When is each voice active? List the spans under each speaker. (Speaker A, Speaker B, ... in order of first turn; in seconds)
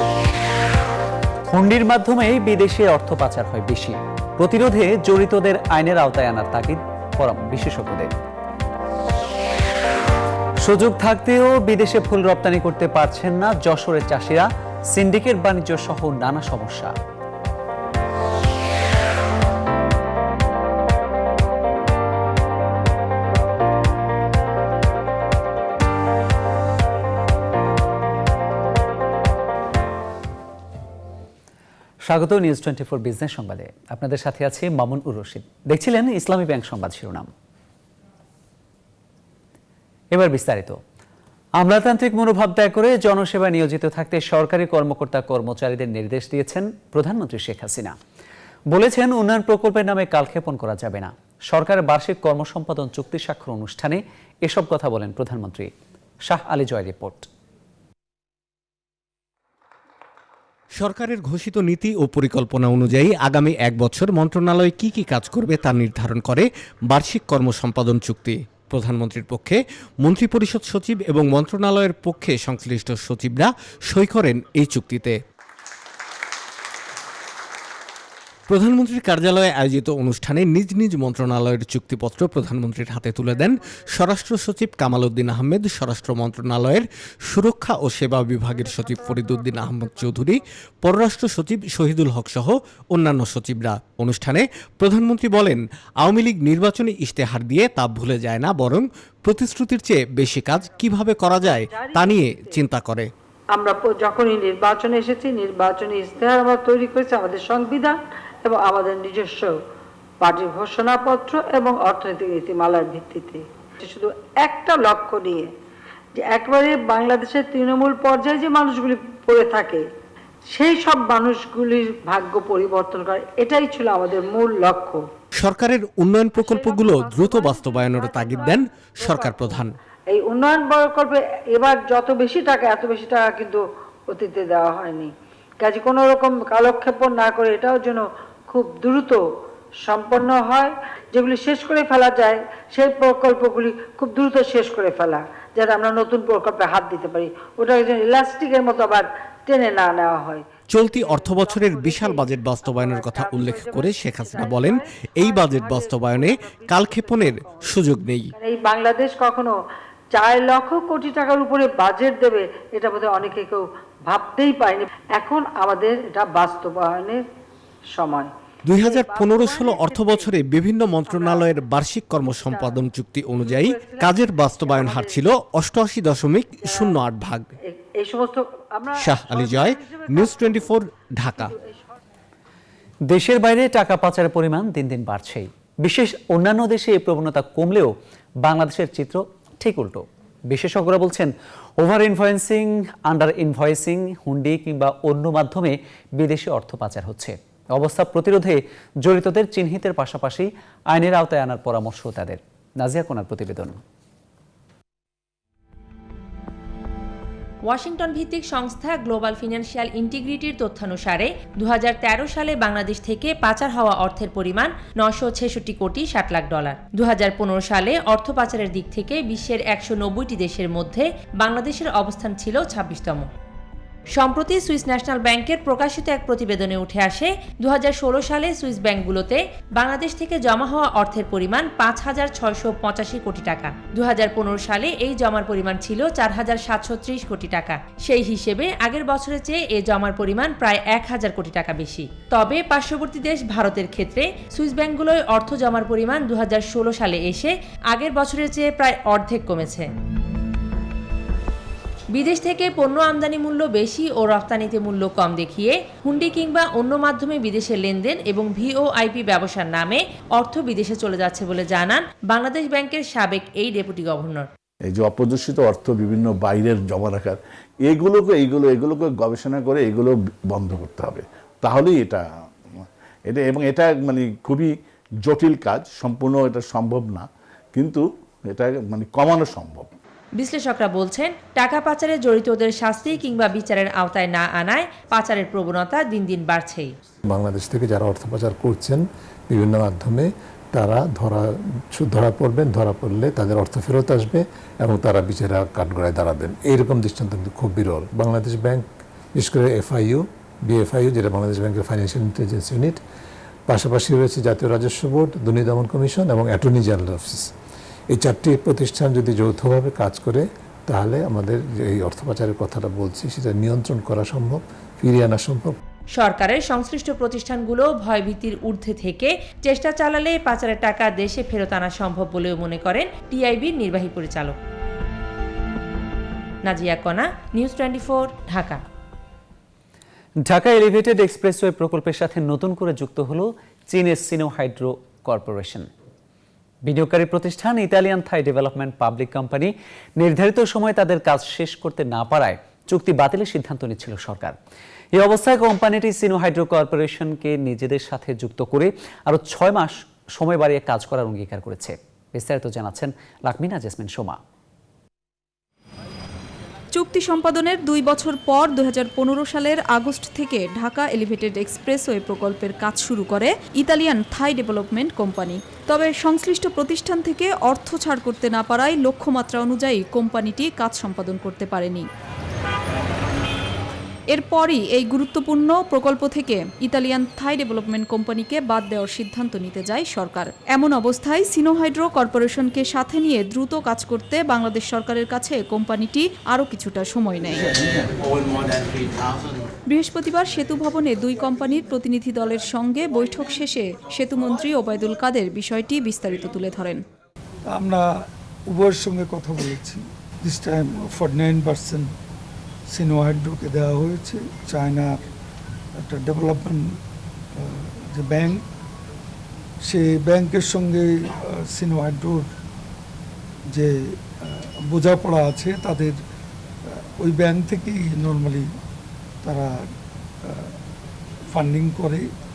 Speaker A: 1.5-8.1, 10.6-16.9, 32.0-37.3, 40.1-40.8, 41.6-48.0, 48.7-55.7, 56.3-57.3, 183.1-203.8, 330.4-335.9, 336.9-344.6, 345.1-354.4
Speaker B: 60.8-75.2, 78.5-103.1, 125.3-129.7, 150.7-158.3, 168.7-177.5, 179.0-181.5
Speaker C: 101.7-102.6, 103.6-109.6, 110.2-115.5, 116.2-119.8, 120.5-125.0, 126.4-139.2, 139.8-157.7, 158.4-159.6, 160.1-167.2, 168.0-170.3, 171.1-171.5, 172.4-172.8, 173.4-175.2, 176.7-177.0, 177.7-180.7, 181.4-181.9
Speaker D: 207.7-223.3, 224.2-249.9, 252.1-264.5, 280.4-286.9, 316.2-324.6, 326.7-328.8
Speaker E: 264.9-272.2, 272.8-274.7, 275.2-279.9
Speaker F: 287.3-303.0, 303.7-307.5, 308.1-315.8
Speaker G: 356.9-372.1, 374.3-387.7, 389.9-397.0
Speaker H: 398.7-402.1, 402.9-405.1, 406.0-406.8, 407.6-408.6, 409.9-412.4, 414.9-416.1, 417.2-418.6, 421.5-422.2